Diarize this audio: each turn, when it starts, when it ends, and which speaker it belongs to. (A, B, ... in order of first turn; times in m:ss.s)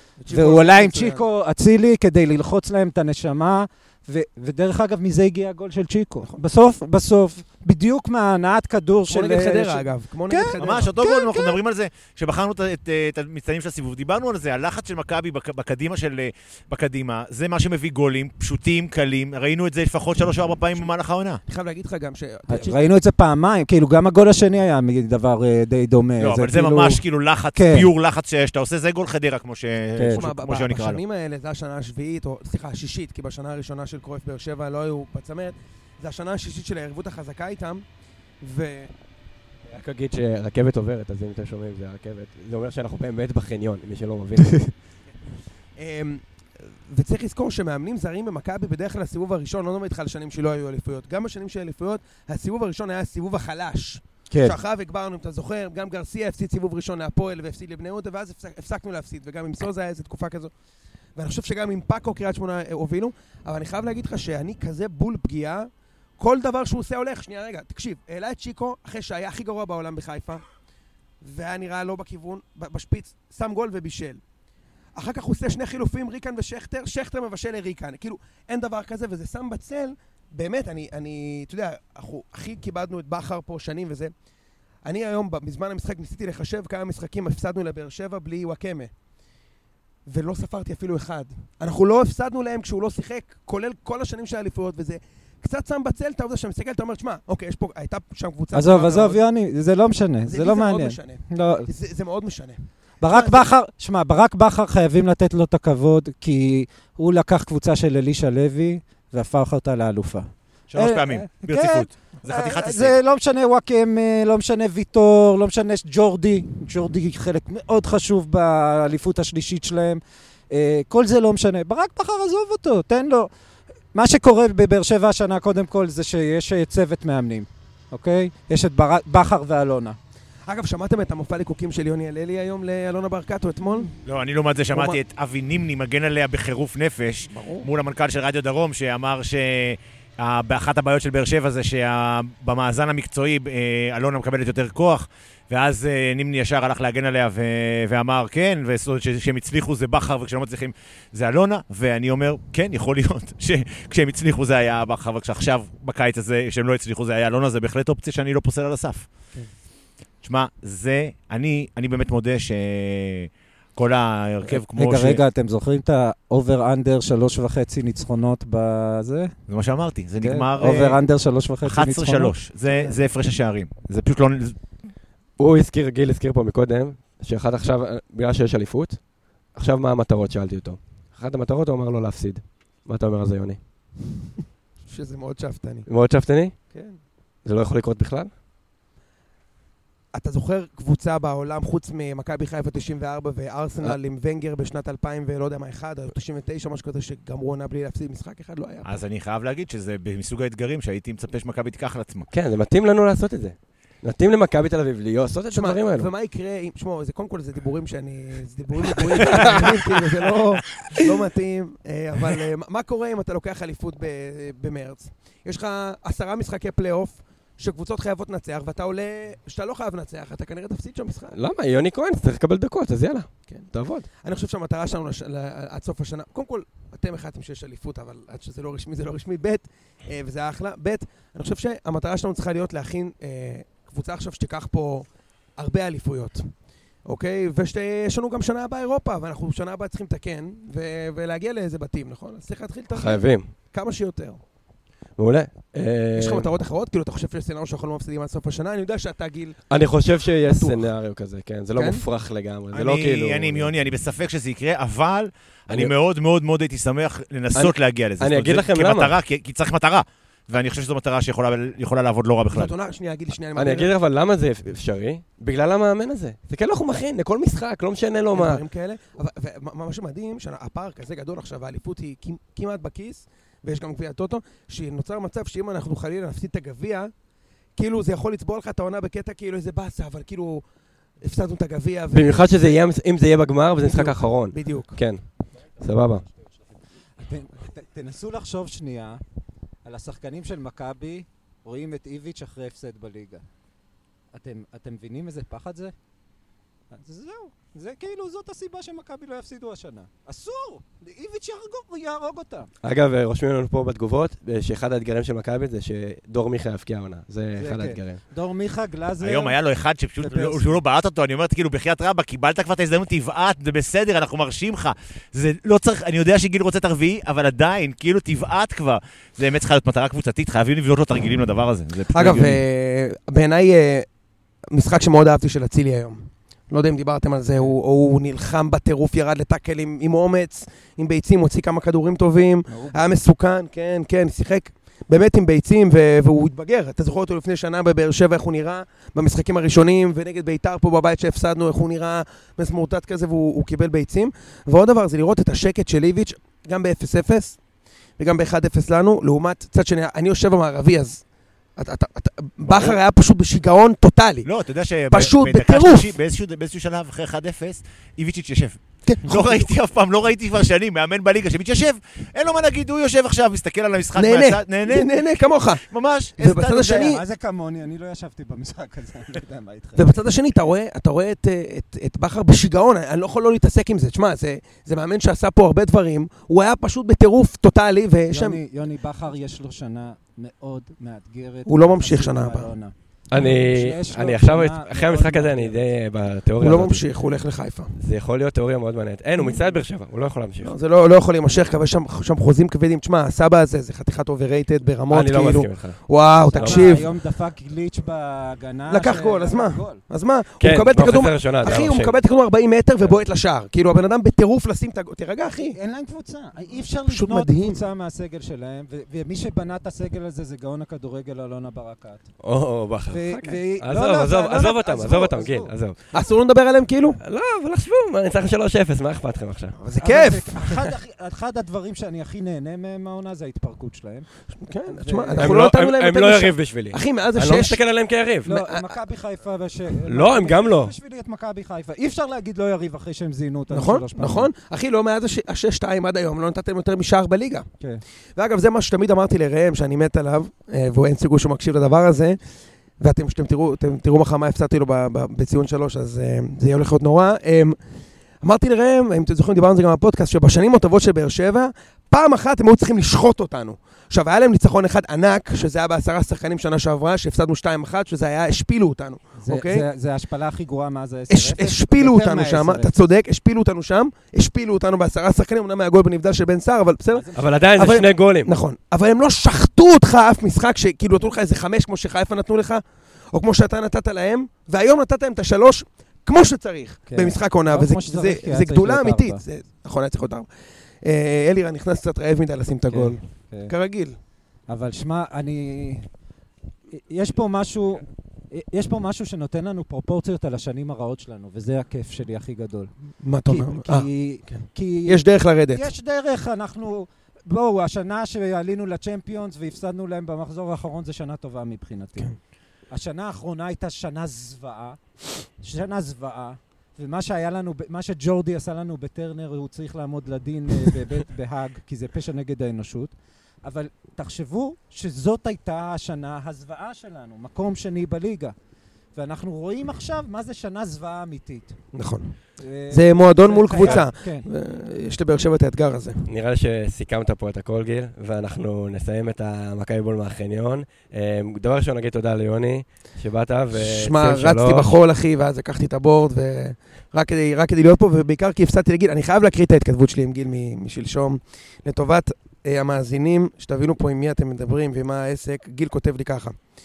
0:00.2-0:01.2 A
0:00.3-0:11.6 B
0:09.1-0:10.9 A
0:10.6-0:21.4 C
0:21.5-0:22.8 A
0:22.5-0:27.0 B
0:26.2-0:31.0 C
0:27.6-0:27.9 B
0:30.0-0:30.2 B
0:30.1-0:37.8 A
0:38.4-0:38.9 A
0:39.7-0:44.7 D
0:45.8-1:00.5 A
0:54.3-0:54.6 B
1:01.2-1:10.4 A
1:11.2-1:14.2 A
1:15.0-1:24.1 A
1:24.8-1:28.9 A
1:30.1-1:39.2 A
1:38.5-1:41.7 B
1:40.3-1:43.5 A
1:43.0-2:03.3 B
1:50.7-1:53.0 C
2:03.9-2:10.0 B
2:10.5-2:13.9 A
2:14.0-2:39.1 C
2:14.7-2:15.0 A
2:17.3-2:17.7 A
2:40.2-2:45.2 C
2:44.5-2:49.3 B
2:49.5-2:51.0 C
2:50.2-2:52.4 B
2:51.6-2:54.6 C
2:55.4-3:03.6 D
3:04.9-3:05.9 A
3:05.9-3:06.6 D
3:06.7-3:07.0 A
3:07.4-3:08.3 D
3:10.1-3:19.0 A
3:18.8-3:22.3 C
3:22.3-3:26.1 D
3:25.5-3:41.4 A
3:29.0-3:30.2 D
3:41.3-3:44.1 D
3:43.5-3:56.5 A
3:57.1-4:04.4 A
4:02.9-4:03.5 D
4:05.2-4:06.5 D
4:06.2-4:09.6 A
4:09.7-4:13.7 D
4:10.5-4:10.9 A
4:11.8-4:12.0 A
4:12.7-4:22.7 C
4:17.6-4:19.2 D
4:22.5-4:23.9 A
4:23.6-4:28.6 D
4:28.3-4:37.1 A
4:37.8-4:40.6 A
4:41.2-4:42.7 A
4:42.1-4:45.2 D
4:43.8-4:45.0 A
4:45.8-4:46.3 D
4:47.2-4:49.2 B
4:49.8-4:53.4 B
4:54.3-4:55.9 B
4:56.9-5:02.7 B
5:02.8-5:08.2 D
5:07.6-5:09.6 B
5:09.2-5:22.6 C
5:10.2-5:10.8 B
5:22.1-5:24.1 A
5:24.7-5:47.6 A
5:32.7-5:33.1 B
5:48.2-5:51.2 A
5:51.8-5:54.5 A
5:52.7-5:53.0 C
5:54.4-6:05.3 C
5:55.1-5:56.1 A
5:59.1-5:59.7 A
6:04.2-6:05.8 A
6:05.8-6:07.1 C
6:06.4-6:07.2 A
6:06.9-6:10.1 B
6:10.0-6:18.6 A
6:18.3-6:25.8 B
6:21.7-6:22.7 A
6:23.3-6:27.0 D
6:26.6-6:28.0 A
6:28.0-6:30.7 D
6:30.6-6:37.1 A
6:35.1-6:37.1 D
6:36.6-6:40.0 B
6:38.9-6:45.8 A
6:40.6-6:42.2 D
6:45.7-6:52.3 B
6:47.1-6:47.8 A
6:52.4-6:56.0 D
6:53.1-6:55.7 B
6:56.1-6:57.2 A
6:57.2-6:59.8 D
6:59.8-7:00.9 A
7:00.0-7:04.3 B
7:04.6-7:07.8 A
7:04.9-7:05.6 B
7:05.4-7:08.6 D
7:08.4-7:14.5 B
7:08.5-7:09.0 A
7:10.1-7:10.9 D
7:13.7-7:17.7 A
7:18.4-7:22.4 A
7:23.0-7:27.8 A
7:28.4-7:39.9 A
7:39.4-7:42.9 B
7:41.3-7:52.8 A
7:47.1-7:47.5 B
7:47.3-7:48.5 D
7:53.3-8:00.5 A
7:57.1-7:59.4 B
8:01.0-8:04.2 A
8:02.9-8:03.7 B
8:04.7-8:06.1 B
8:06.9-8:12.9 B
8:13.2-8:15.9 A
8:13.5-8:22.3 B
8:22.9-8:25.0 B
8:25.6-8:33.1 B
8:33.6-8:38.6 B
8:39.2-8:41.8 B
8:41.9-8:42.4 A
8:42.6-8:44.5 B
8:42.9-8:46.3 A
8:46.3-8:54.9 D
8:53.7-9:06.6 A